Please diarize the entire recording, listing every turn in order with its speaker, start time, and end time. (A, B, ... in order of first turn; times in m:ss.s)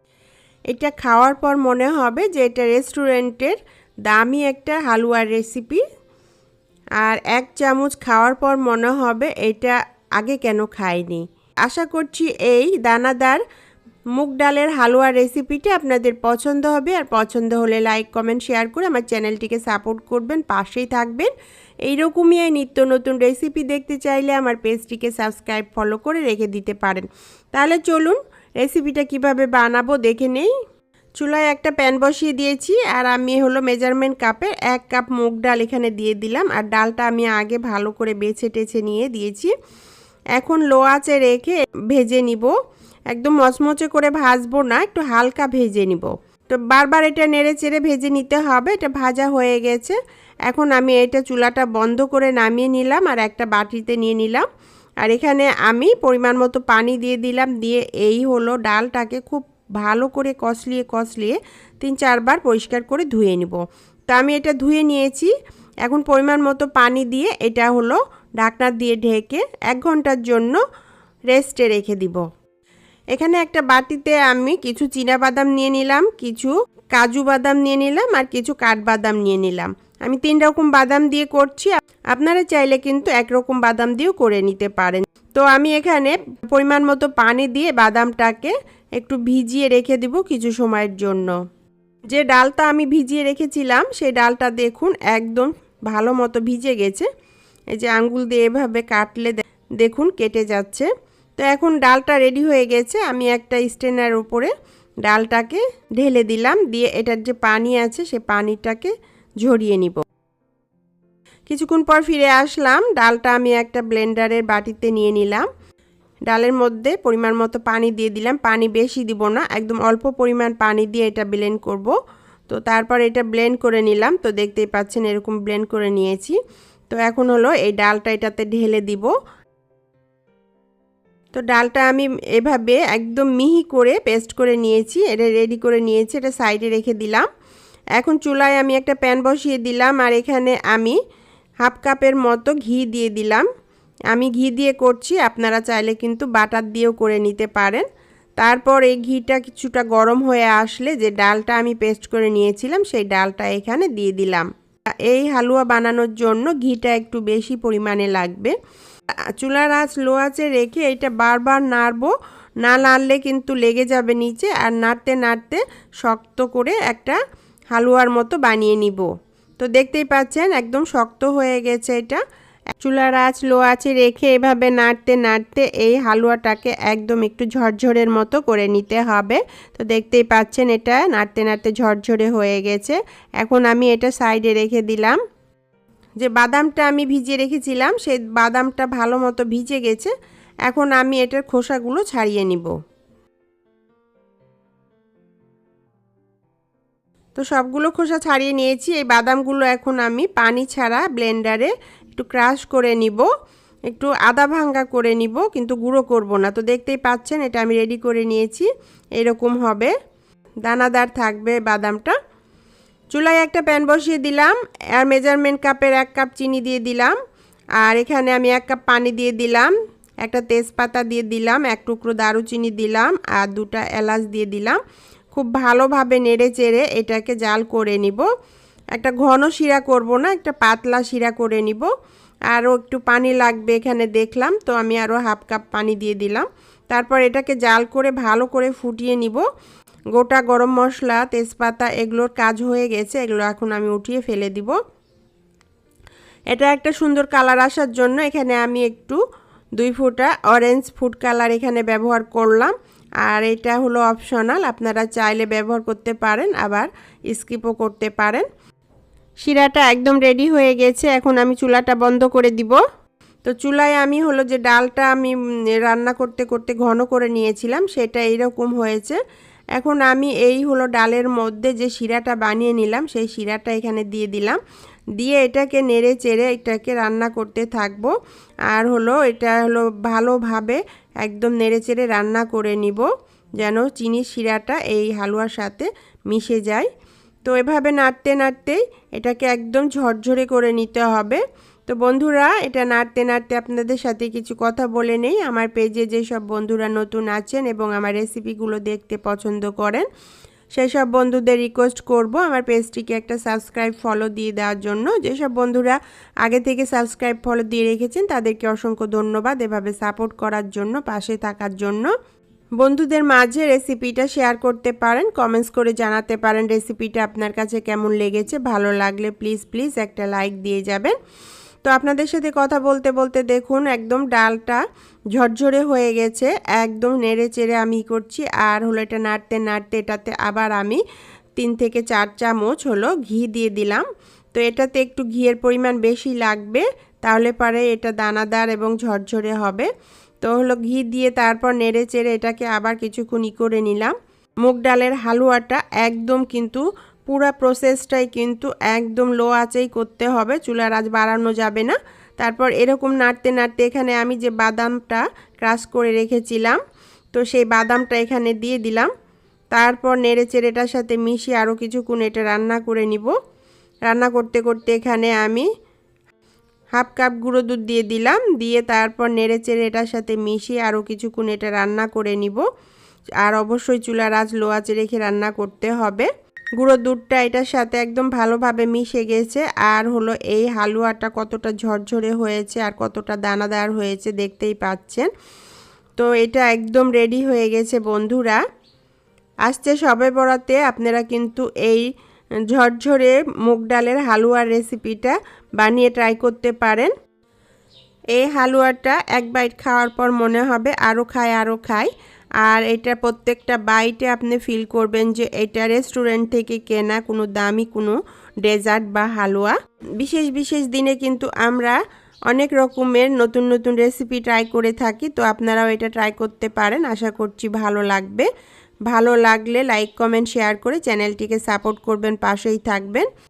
0:00.7-0:05.8 A
0:07.0-0:13.4 A
0:14.2-0:21.3 A
0:21.8-0:30.5 A
0:31.2-0:39.5 A
0:40.3-0:42.6 A
0:43.1-0:54.5 A
0:55.0-1:05.3 A
1:05.8-1:10.6 A
1:11.3-1:12.2 A
1:13.1-1:31.3 A
1:32.1-1:37.1 A
1:37.7-1:44.5 A
1:45.0-1:50.0 A
1:51.5-1:55.5 A
1:56.3-2:01.9 A
2:02.5-2:06.4 A
2:06.9-2:09.1 A
2:11.3-2:17.3 A
2:18.0-2:21.0 A
2:21.6-2:23.4 A
2:24.1-2:27.8 A
2:28.4-2:34.5 A
2:35.0-2:38.6 A
2:39.4-2:47.2 A
2:47.7-2:52.2 A
2:52.8-3:05.2 A
3:06.2-3:10.1 A
3:10.6-3:12.7 A
3:17.4-3:23.3 A
3:23.9-3:29.9 A
3:30.6-3:32.2 A
3:33.1-3:37.2 A
3:37.8-3:44.8 A
3:45.3-3:48.2 A
3:48.9-3:51.9 A
3:52.5-3:59.4 A
4:00.1-4:04.7 A
4:06.5-4:09.2 A
4:09.8-4:18.5 A
4:19.4-4:22.8 A
4:23.4-4:29.2 A
4:29.8-4:34.6 A
4:35.2-4:38.1 A
4:38.7-4:46.9 A
4:47.4-5:00.1 A
5:00.8-5:12.1 A
5:12.8-5:21.2 A
5:21.8-5:24.8 A
5:25.3-5:31.0 A
5:31.6-5:39.9 A
5:40.4-5:56.8 A
5:57.3-5:59.1 A
5:59.7-6:03.4 A
6:04.1-6:05.7 A
6:06.9-6:12.6 A
6:13.4-6:25.3 A
6:26.2-6:28.6 A
6:29.6-6:32.1 A
6:32.7-6:37.1 A
6:38.3-6:42.1 A
6:42.6-6:58.5 A
6:59.1-7:03.3 A